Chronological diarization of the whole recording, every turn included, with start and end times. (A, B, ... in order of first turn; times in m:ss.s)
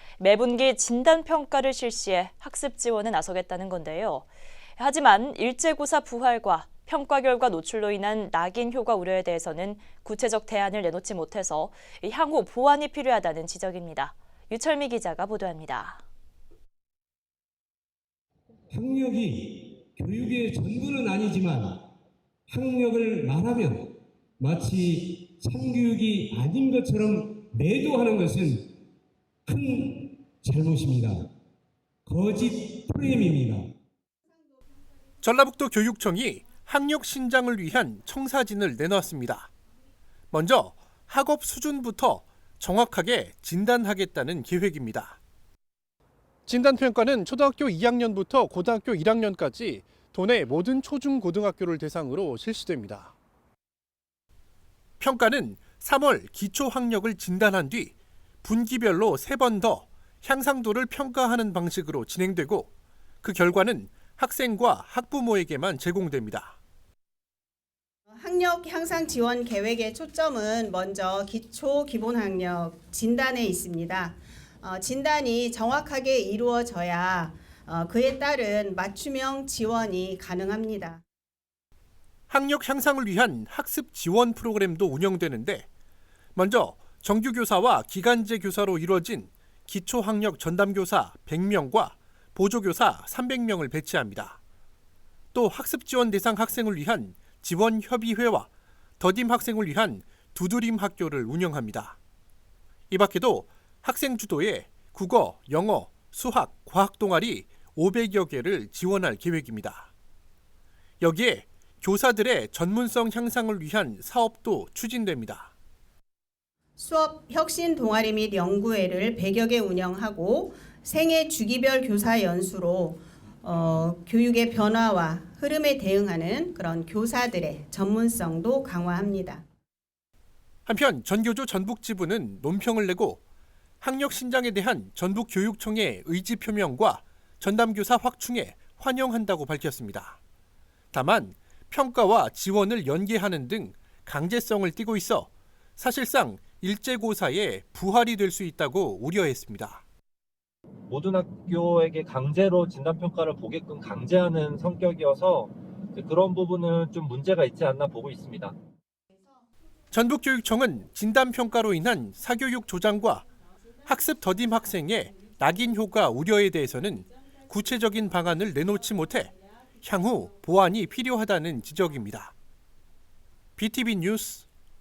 0:00.2-0:16.0 A
0:18.9-0:21.8 B
0:22.5-0:23.7 C
0:22.6-0:23.9 B
0:24.4-0:28.2 C
0:25.8-0:26.5 B
0:27.3-0:28.7 B
0:29.5-0:30.5 C
0:30.5-0:31.2 B
0:32.0-0:33.2 C
0:32.1-0:33.6 B
0:35.2-0:39.5 D
0:40.3-0:45.2 D
0:46.5-0:53.1 D
0:55.0-1:02.7 D
1:03.2-1:06.6 D
1:08.1-1:21.0 E
1:22.3-1:25.7 D
1:26.3-1:34.4 D
1:35.3-1:38.5 D
1:39.0-1:42.0 D
1:42.9-1:49.9 D
1:51.0-1:55.5 D
1:56.8-2:09.4 E
2:10.6-2:13.2 D
2:13.8-2:20.2 D
2:20.9-2:29.8 D
2:30.9-2:38.5 C
2:39.9-2:43.3 D
2:43.8-2:52.3 D
2:53.6-2:54.4 D